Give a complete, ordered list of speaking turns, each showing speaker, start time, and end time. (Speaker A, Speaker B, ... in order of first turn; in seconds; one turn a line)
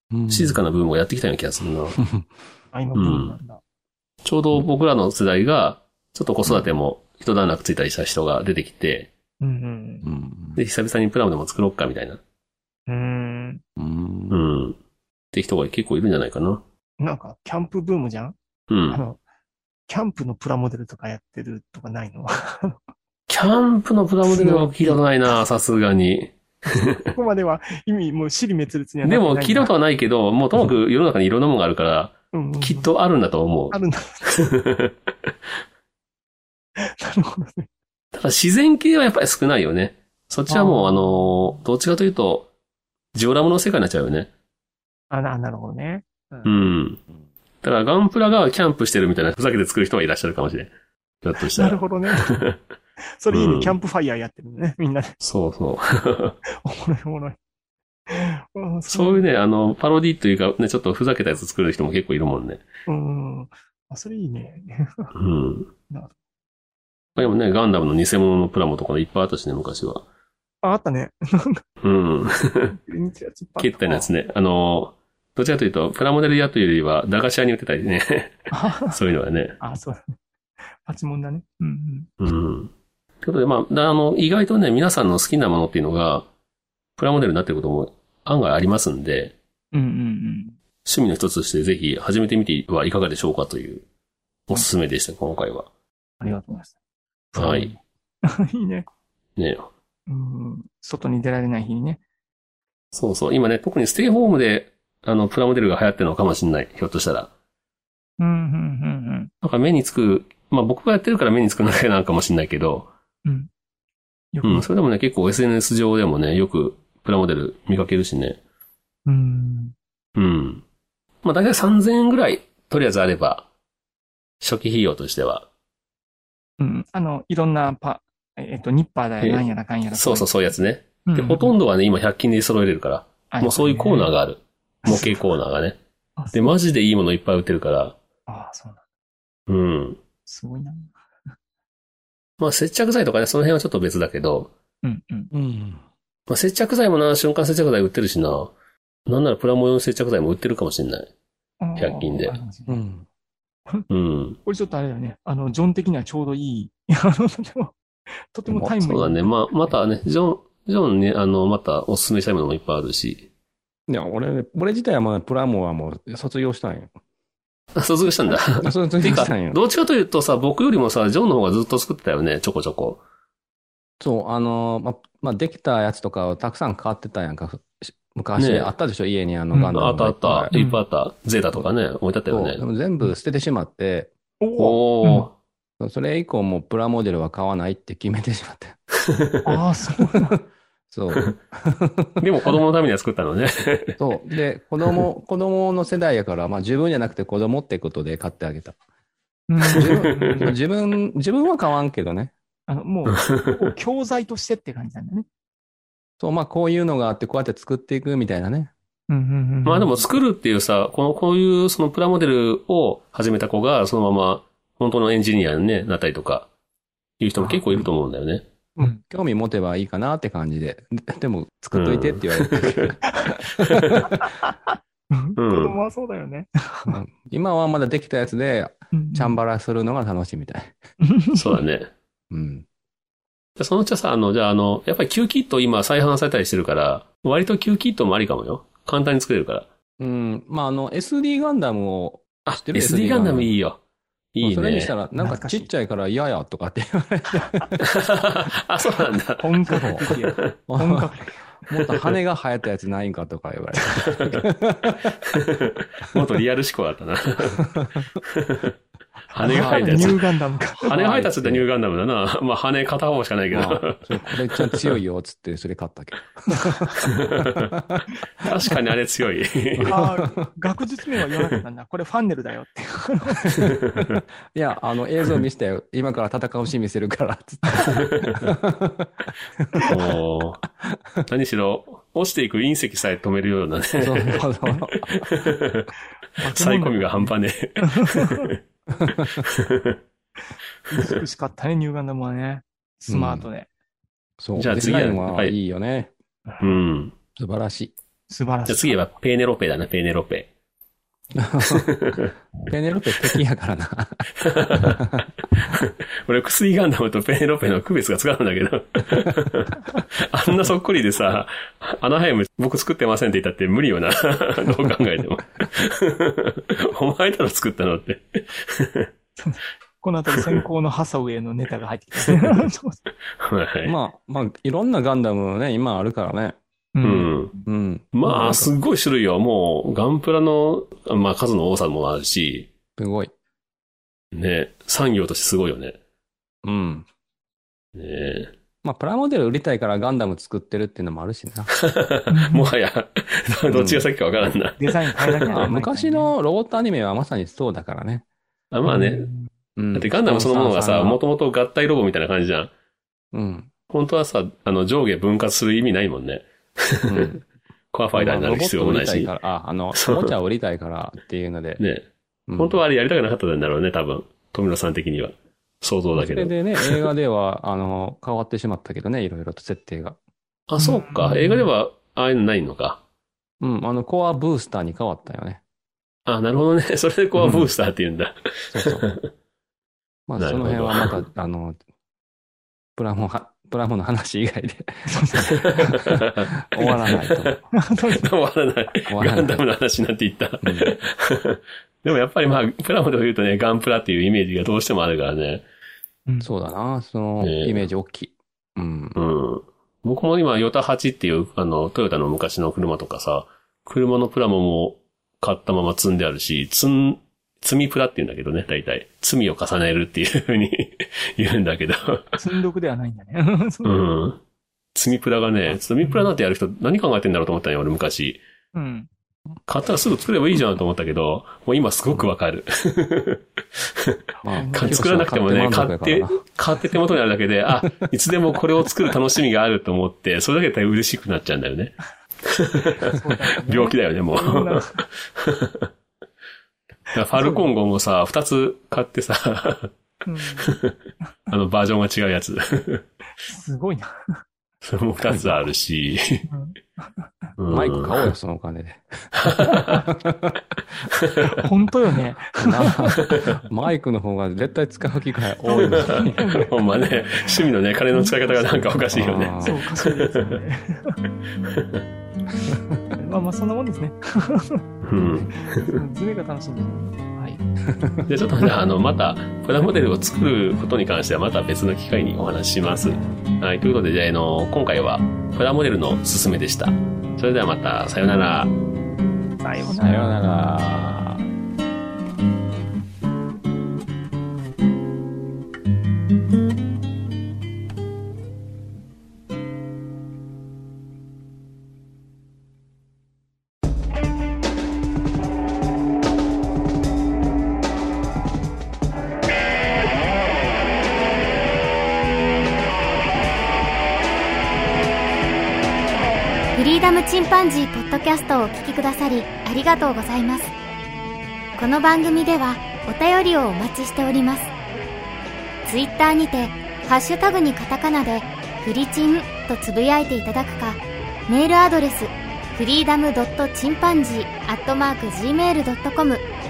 Speaker A: 0.1-0.6
Speaker B: 0.3-2.0
Speaker C: 2.7-3.6
Speaker B: 2.9-3.4
Speaker B: 4.2-9.1
Speaker C: 9.4-10.0
Speaker A: 10.0-10.6
Speaker B: 10.6-12.2
Speaker C: 12.9-13.6
Speaker A: 13.8-14.4
Speaker B: 14.3-14.8
Speaker B: 15.3-16.6
Speaker C: 17.0-18.4
Speaker B: 18.7-19.0
Speaker C: 18.9-19.2
Speaker C: 19.9-22.8
Speaker B: 23.3-27.1
Speaker C: 24.2-25.4
Speaker C: 27.0-29.7
Speaker B: 29.0-33.8
Speaker C: 32.3-32.9
Speaker C: 33.7-34.5
Speaker B: 34.3-34.9
Speaker C: 36.8-37.7
Speaker B: 38.1-42.5
Speaker C: 40.5-41.3
Speaker B: 43.1-44.3
Speaker C: 45.1-46.7
Speaker B: 46.4-47.0
Speaker B: 47.6-50.7
Speaker B: 51.2-52.6
Speaker C: 51.5-52.4
Speaker C: 53.2-55.1
Speaker B: 53.3-53.7
Speaker B: 55.2-56.4
Speaker C: 56.6-57.4
Speaker C: 58.1-59.2
Speaker B: 58.9-62.6
Speaker C: 62.9-65.1
Speaker B: 65.1-65.7
Speaker C: 65.9-66.1
Speaker B: 67.2-70.0
Speaker C: 70.6-71.6
Speaker B: 71.8-72.8
Speaker C: 72.7-74.1
Speaker B: 73.6-79.6
Speaker C: 78.5-79.0
Speaker C: 79.6-80.1
Speaker C: 80.8-82.1
Speaker B: 82.2-82.7
Speaker B: 83.2-86.3
Speaker B: 87.0-89.3
Speaker C: 89.7-90.6
Speaker B: 90.8-93.8
Speaker B: 94.5-95.7
Speaker C: 96.2-96.8
Speaker C: 97.3-98.8
Speaker B: 97.3-97.7
Speaker B: 99.4-99.7
Speaker C: 100.1-102.0
Speaker B: 102.9-107.3
Speaker C: 108.2-109.3
Speaker B: 109.4-112.9
Speaker C: 114.3-114.7
Speaker B: 114.4-118.4
Speaker C: 119.0-119.7
Speaker B: 120.1-120.6
Speaker B: 121.2-123.5
Speaker B: 124.4-125.5
Speaker C: 126.6-130.3
Speaker B: 129.2-135.8
Speaker C: 131.0-131.5
Speaker C: 133.3-134.1
Speaker C: 134.8-135.3
Speaker C: 136.2-136.6
Speaker B: 136.3-137.9
Speaker C: 138.3-138.8
Speaker B: 139.5-140.0
Speaker C: 140.2-140.9
Speaker B: 142.4-144.5
Speaker C: 144.8-145.3
Speaker A: 145.3-145.8
Speaker B: 146.3-148.5
Speaker B: 149.1-151.1
Speaker C: 151.6-152.8
Speaker B: 151.8-152.4
Speaker A: 152.7-153.0
Speaker B: 153.9-154.4
Speaker C: 154.4-157.8
Speaker C: 158.3-159.7
Speaker B: 158.8-163.3
Speaker A: 163.9-166.9
Speaker B: 167.7-173.0
Speaker A: 168.6-169.6
Speaker A: 174.0-180.5
Speaker B: 178.4-178.7
Speaker C: 179.5-179.8
Speaker B: 179.7-182.6
Speaker C: 180.5-180.8
Speaker A: 182.3-184.1
Speaker C: 184.4-185.3
Speaker B: 184.6-185.3
Speaker A: 185.8-188.8
Speaker B: 189.1-189.4
Speaker C: 189.4-190.4
Speaker A: 190.9-192.2
Speaker B: 192.2-194.0
Speaker A: 194.0-198.8
Speaker C: 199.5-200.6
Speaker B: 199.6-200.4
Speaker A: 199.8-202.3
Speaker C: 202.7-205.3
Speaker B: 203.2-203.5
Speaker A: 206.2-208.7
Speaker C: 209.1-209.9
Speaker B: 209.6-216.5
Speaker B: 217.2-218.4
Speaker C: 218.8-219.0
Speaker A: 218.8-223.0
Speaker B: 221.7-222.9
Speaker C: 223.1-223.4
Speaker A: 223.6-224.1
Speaker B: 223.6-224.0
Speaker C: 224.0-226.9
Speaker B: 225.4-225.8
Speaker A: 226.9-230.8
Speaker C: 228.9-229.4
Speaker C: 231.0-231.6
Speaker B: 231.3-231.9
Speaker A: 232.3-232.7
Speaker B: 233.6-239.7
Speaker A: 240.0-243.5
Speaker B: 242.4-243.8
Speaker B: 244.3-244.9
Speaker A: 244.4-247.8
Speaker C: 245.2-245.7
Speaker C: 247.3-247.7
Speaker B: 247.8-249.5
Speaker C: 249.4-251.4
Speaker A: 249.7-250.1
Speaker B: 250.0-250.4
Speaker A: 250.7-251.1
Speaker A: 251.7-255.2
Speaker B: 254.0-254.4
Speaker B: 255.3-258.7
Speaker B: 259.3-260.3
Speaker C: 259.4-260.9
Speaker A: 259.4-260.2
Speaker B: 260.8-264.9
Speaker A: 260.9-261.6
Speaker A: 263.5-268.0
Speaker C: 266.5-266.9
Speaker B: 267.0-267.7
Speaker B: 268.4-269.9
Speaker A: 269.8-270.5
Speaker C: 269.9-273.6
Speaker A: 273.5-280.2
Speaker B: 273.6-274.2
Speaker B: 277.9-278.5
Speaker B: 279.9-280.6
Speaker A: 280.8-281.2
Speaker B: 281.2-285.9
Speaker A: 284.0-285.4
Speaker C: 286.4-288.5
Speaker B: 286.4-288.6
Speaker A: 289.0-289.4
Speaker B: 289.1-290.0
Speaker C: 290.9-293.7
Speaker A: 293.1-293.5
Speaker A: 294.4-296.1
Speaker B: 294.6-295.5
Speaker C: 296.5-296.8
Speaker B: 296.6-297.1
Speaker A: 297.3-297.9
Speaker C: 298.3-299.0
Speaker B: 298.7-300.5
Speaker A: 301.4-305.3
Speaker B: 301.6-302.3
Speaker B: 304.4-305.0
Speaker B: 305.6-319.1
Speaker C: 319.4-323.0
Speaker B: 323.4-323.9
Speaker A: 323.8-326.6
Speaker C: 326.9-327.3
Speaker B: 327.0-327.5
Speaker A: 327.6-328.7
Speaker B: 328.1-332.7
Speaker A: 333.0-333.3
Speaker B: 334.3-336.0
Speaker A: 336.6-337.1
Speaker B: 337.9-338.5
Speaker A: 338.8-341.7
Speaker B: 341.8-345.7
Speaker C: 342.3-342.7
Speaker A: 343.7-344.1
Speaker C: 344.8-346.3
Speaker A: 345.5-348.2
Speaker B: 348.7-349.3
Speaker C: 348.9-349.5
Speaker A: 349.8-351.2
Speaker B: 349.9-352.7
Speaker A: 353.3-353.7
Speaker B: 353.9-357.4
Speaker A: 357.1-357.4
Speaker B: 357.9-359.3
Speaker A: 358.1-361.8
Speaker B: 359.9-360.3
Speaker B: 361.8-362.1
Speaker A: 362.5-362.8
Speaker B: 362.6-367.1
Speaker A: 366.1-370.2
Speaker B: 370.7-373.0
Speaker C: 370.8-371.7
Speaker A: 373.6-375.6
Speaker B: 376.2-379.2
Speaker A: 377.4-377.7
Speaker A: 378.7-379.1
Speaker A: 380.3-381.8
Speaker B: 380.4-381.2
Speaker A: 383.0-387.6
Speaker C: 385.1-386.0
Speaker B: 385.5-387.6
Speaker C: 387.7-388.3
Speaker B: 388.2-395.6
Speaker A: 389.1-389.6
Speaker A: 390.6-391.0
Speaker A: 396.4-399.2
Speaker B: 397.4-397.9
Speaker B: 399.1-412.4
Speaker C: 412.4-413.9
Speaker B: 413.8-414.4
Speaker B: 414.9-418.4
Speaker C: 416.0-416.3
Speaker C: 418.7-419.1
Speaker B: 419.7-424.2
Speaker A: 424.4-426.4
Speaker C: 424.5-425.1
Speaker B: 424.7-435.9
Speaker C: 433.1-435.0
Speaker B: 437.1-439.9
Speaker C: 437.3-437.7
Speaker C: 440.2-440.7
Speaker B: 440.6-440.9
Speaker B: 441.5-443.0
Speaker C: 443.4-444.4
Speaker B: 444.8-446.4
Speaker C: 446.5-447.5
Speaker B: 447.6-448.3
Speaker A: 447.7-450.6
Speaker B: 449.3-450.0
Speaker C: 449.7-450.0
Speaker B: 451.1-451.6
Speaker C: 451.5-453.6
Speaker A: 452.6-456.4
Speaker B: 453.2-453.6
Speaker C: 455.6-457.6
Speaker B: 455.8-460.5
Speaker C: 458.1-458.6
Speaker A: 459.1-459.8
Speaker C: 459.6-461.2
Speaker B: 461.7-462.0
Speaker A: 462.7-463.0
Speaker C: 463.2-464.8
Speaker B: 465.0-466.0
Speaker C: 465.6-467.6
Speaker A: 467.9-468.3
Speaker B: 468.3-478.7
Speaker C: 479.6-480.3
Speaker A: 479.8-481.4
Speaker D: 506.7-510.7
Speaker D: 511.8-514.7
Speaker D: 515.9-526.4